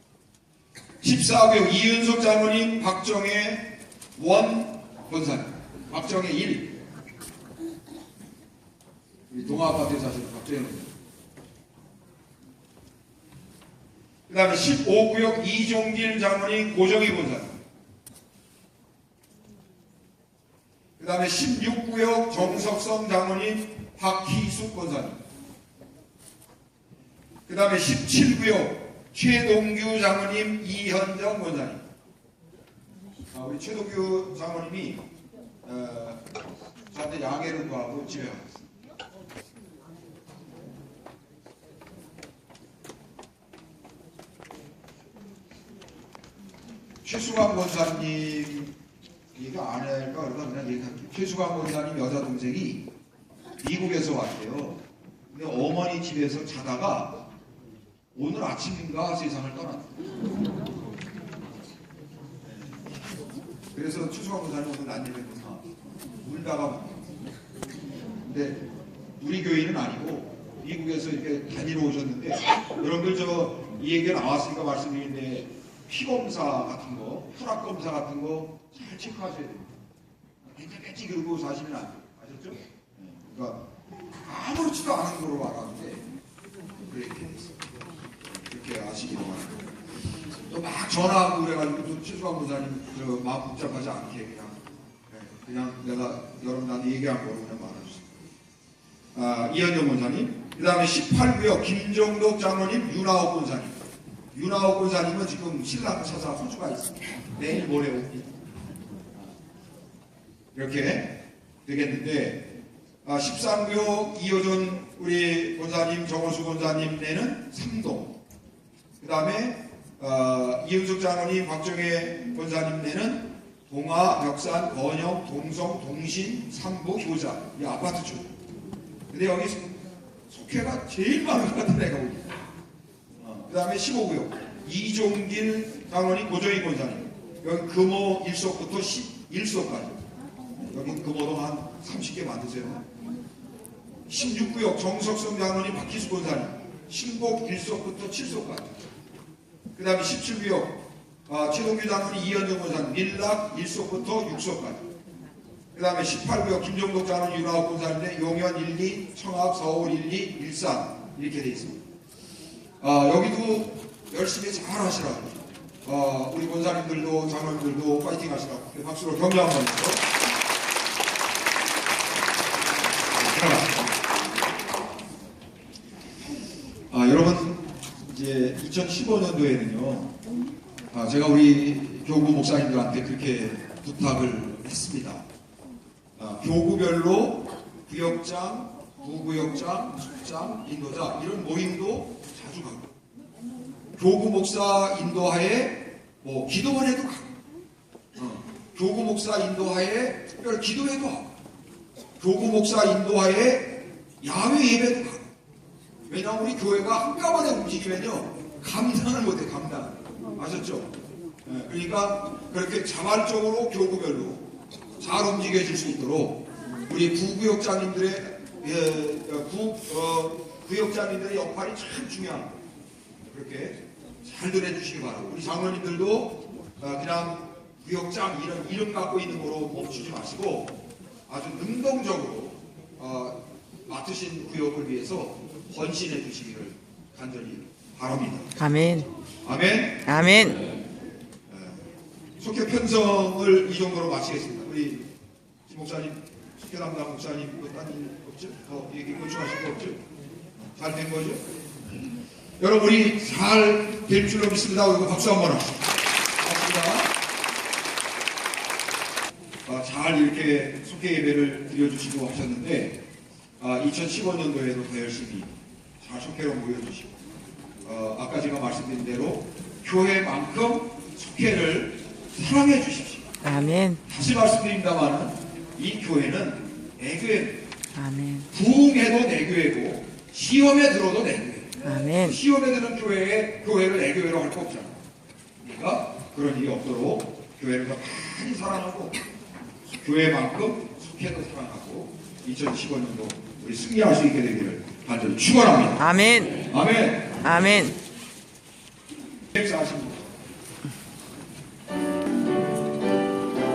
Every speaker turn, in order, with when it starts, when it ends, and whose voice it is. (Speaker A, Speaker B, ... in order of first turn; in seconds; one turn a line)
Speaker A: 1.0-6.8
Speaker A: 9.3-10.9
Speaker A: 14.3-17.6
Speaker A: 21.0-25.2
Speaker A: 27.5-31.8
Speaker A: 33.3-35.0
Speaker A: 35.6-36.2
Speaker A: 36.9-38.4
Speaker A: 47.0-48.7
Speaker A: 49.3-52.8
Speaker A: 53.6-57.2
Speaker A: 58.1-59.9
Speaker A: 62.4-62.9
Speaker A: 63.7-65.7
Speaker A: 66.2-67.1
Speaker A: 68.2-68.7
Speaker A: 69.2-79.8
Speaker A: 80.5-83.7
Speaker A: 84.2-86.1
Speaker A: 86.9-87.5
Speaker A: 88.3-89.7
Speaker A: 90.5-98.2
Speaker A: 99.1-108.4
Speaker A: 110.5-112.5
Speaker A: 113.0-118.2
Speaker A: 119.0-128.3
Speaker A: 129.1-132.5
Speaker A: 133.2-140.0
Speaker A: 140.6-142.8
Speaker A: 144.1-148.8
Speaker A: 149.7-154.9
Speaker A: 155.7-161.8
Speaker A: 162.8-170.0
Speaker A: 173.1-173.9
Speaker A: 176.9-180.1
Speaker A: 180.9-185.2
Speaker A: 186.2-192.9
Speaker A: 194.0-197.3
Speaker A: 198.2-201.3
Speaker A: 202.2-205.2
Speaker A: 206.1-210.9
Speaker A: 211.4-214.5
Speaker A: 215.0-222.6
Speaker A: 223.2-230.8
Speaker A: 231.3-238.5
Speaker B: 238.6-239.1
Speaker A: 239.4-240.2
Speaker B: 240.0-240.6
Speaker A: 241.5-241.8
Speaker A: 242.4-245.1
Speaker A: 245.7-250.0
Speaker A: 250.6-252.0
Speaker A: 252.6-257.1
Speaker A: 259.6-263.0
Speaker A: 263.6-267.1
Speaker A: 267.8-273.3
Speaker B: 273.4-274.0
Speaker A: 274.1-277.6
Speaker B: 277.9-278.5
Speaker A: 278.5-285.0
Speaker B: 281.8-282.4
Speaker A: 285.6-289.2
Speaker A: 289.9-296.1
Speaker B: 296.0-296.6
Speaker A: 296.7-297.4
Speaker B: 297.4-298.0
Speaker A: 299.5-300.3